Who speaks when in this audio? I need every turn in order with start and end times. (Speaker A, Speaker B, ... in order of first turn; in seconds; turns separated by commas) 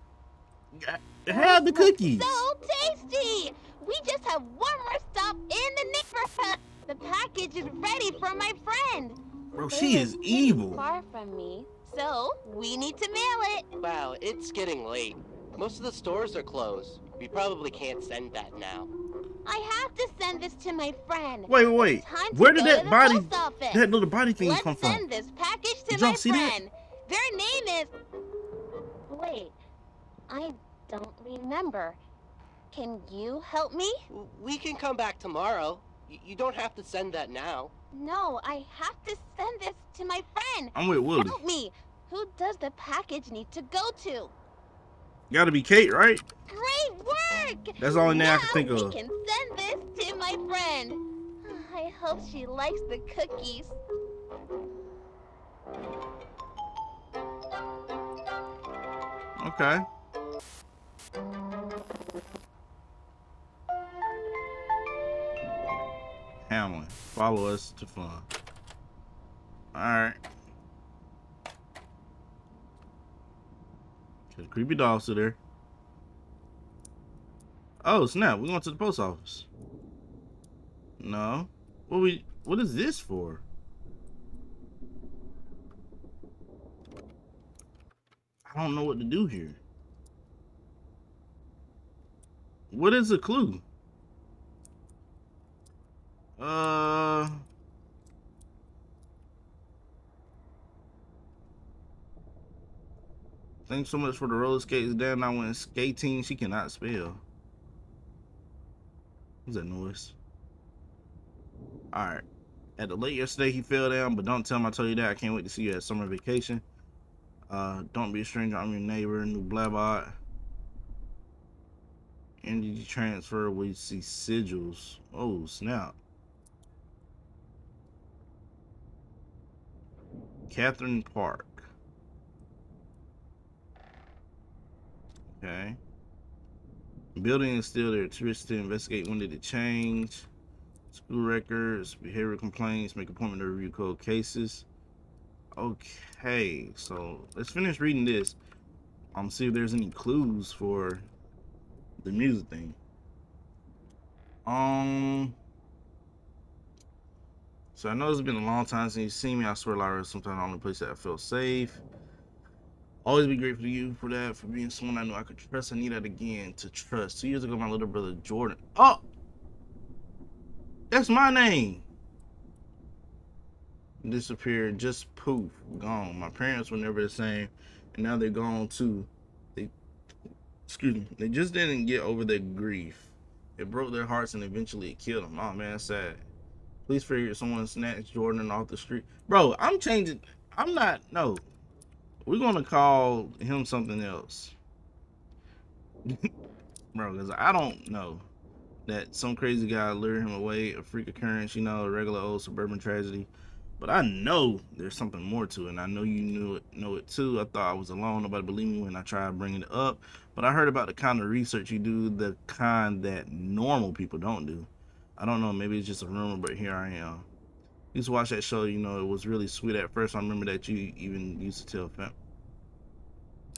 Speaker A: 0.7-2.4, Speaker B: 1.3-13.6, Speaker A: 9.5-10.8, Speaker C: 13.8-18.9, Speaker B: 19.4-27.9, Speaker A: 21.5-25.0, Speaker A: 25.9-26.5, Speaker B: 29.1-29.6, Speaker B: 30.3-32.0, Speaker B: 32.7-34.0, Speaker C: 34.1-37.7, Speaker B: 37.9-44.3, Speaker A: 40.7-41.4, Speaker A: 45.3-46.2, Speaker B: 46.5-53.8, Speaker A: 47.8-48.9, Speaker A: 59.4-59.9, Speaker A: 66.5-68.3, Speaker A: 69.7-70.2, Speaker A: 74.3-75.4, Speaker A: 77.8-79.5, Speaker A: 81.0-83.4, Speaker A: 88.5-89.6, Speaker A: 92.7-93.6, Speaker A: 96.4-97.4, Speaker A: 103.7-107.2, Speaker A: 109.5-110.2, Speaker A: 111.9-112.2, Speaker A: 112.8-116.6, Speaker A: 117.5-120.2, Speaker A: 122.4-126.0, Speaker A: 130.5-131.7, Speaker A: 135.3-135.8, Speaker A: 137.1-140.3, Speaker A: 140.9-144.7, Speaker A: 145.6-148.4, Speaker A: 149.1-151.1, Speaker A: 152.0-152.8, Speaker A: 154.4-155.4, Speaker A: 157.7-161.8, Speaker A: 163.0-169.0, Speaker A: 170.9-171.8, Speaker A: 174.0-179.7, Speaker A: 180.7-186.2, Speaker A: 186.9-191.4, Speaker A: 192.2-194.5, Speaker A: 196.9-198.2, Speaker A: 198.8-217.2, Speaker A: 217.9-222.1